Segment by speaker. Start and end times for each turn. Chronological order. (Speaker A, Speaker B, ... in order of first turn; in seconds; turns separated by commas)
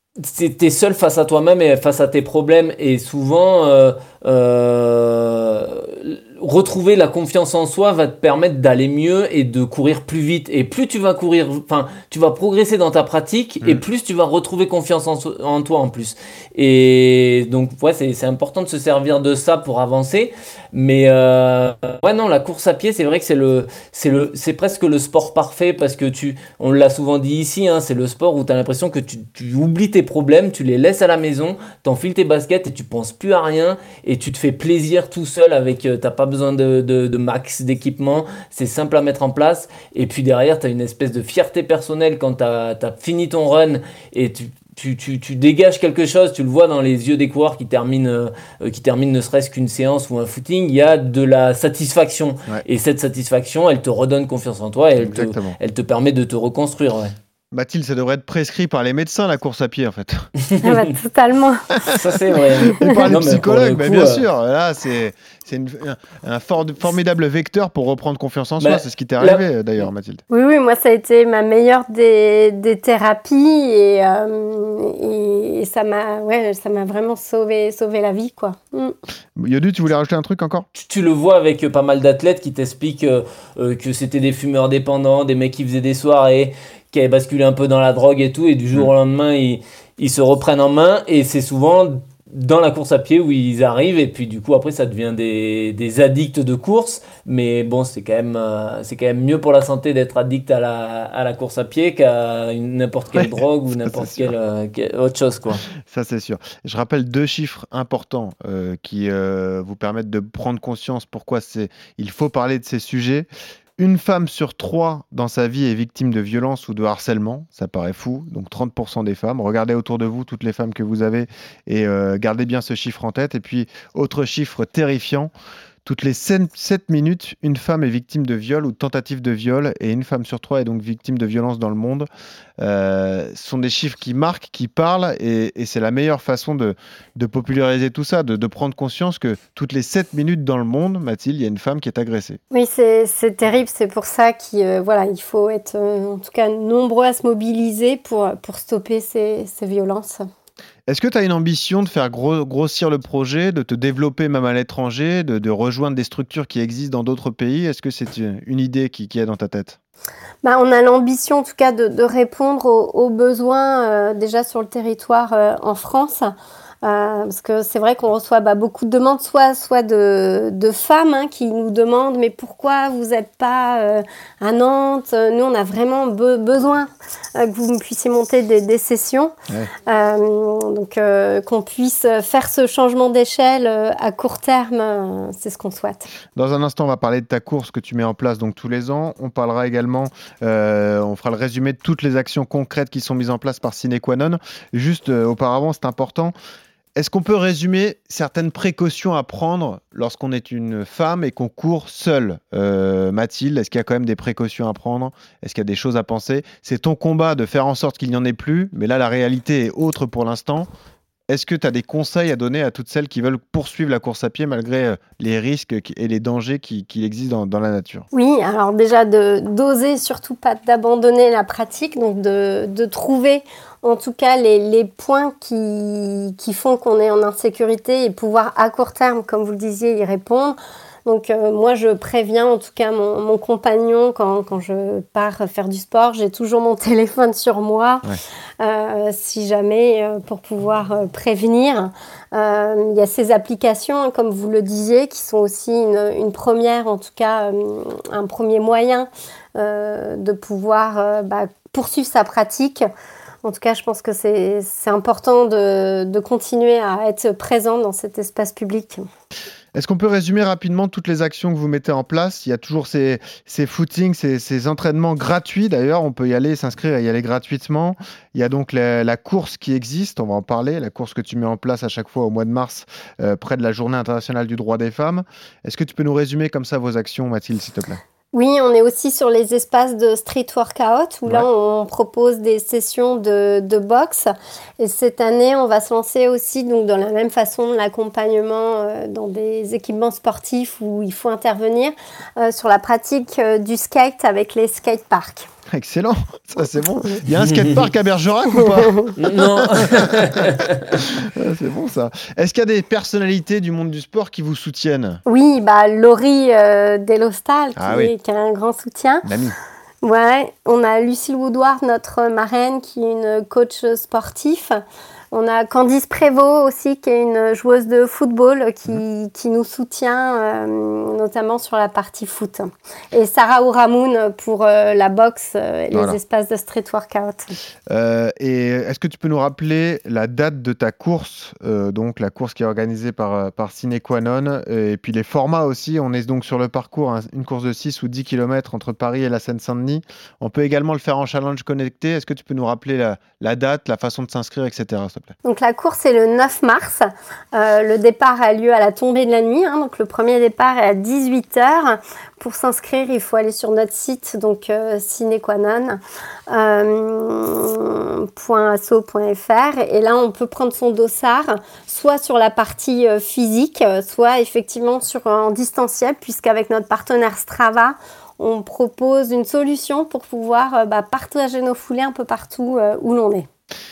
Speaker A: 0.2-57.1, Speaker B: 55.0-55.6, Speaker B: 57.5-60.3, Speaker C: 60.6-61.7, Speaker A: 61.9-64.2, Speaker C: 62.7-63.0, Speaker B: 62.8-70.2, Speaker A: 68.6-69.4, Speaker C: 70.3-78.9, Speaker B: 79.3-80.7, Speaker A: 80.7-105.6, Speaker B: 103.8-104.3, Speaker B: 105.8-125.3, Speaker B: 125.8-132.1, Speaker B: 132.6-142.4, Speaker C: 142.5-150.2, Speaker B: 150.9-159.8, Speaker C: 160.4-179.3, Speaker C: 179.9-186.1, Speaker B: 186.3-196.3, Speaker B: 196.9-210.7, Speaker B: 211.3-218.1, Speaker C: 218.1-238.1, Speaker C: 238.6-252.8, Speaker C: 253.4-259.0, Speaker B: 259.7-278.0, Speaker C: 278.3-295.5, Speaker B: 295.7-300.5, Speaker A: 297.4-297.7, Speaker C: 298.8-299.1, Speaker A: 299.2-301.0, Speaker B: 301.0-305.2, Speaker C: 305.2-309.2, Speaker B: 307.8-308.1, Speaker B: 309.2-309.6, Speaker C: 310.0-314.8, Speaker C: 315.3-327.5, Speaker B: 325.9-326.2, Speaker B: 327.9-345.3, Speaker C: 345.4-373.5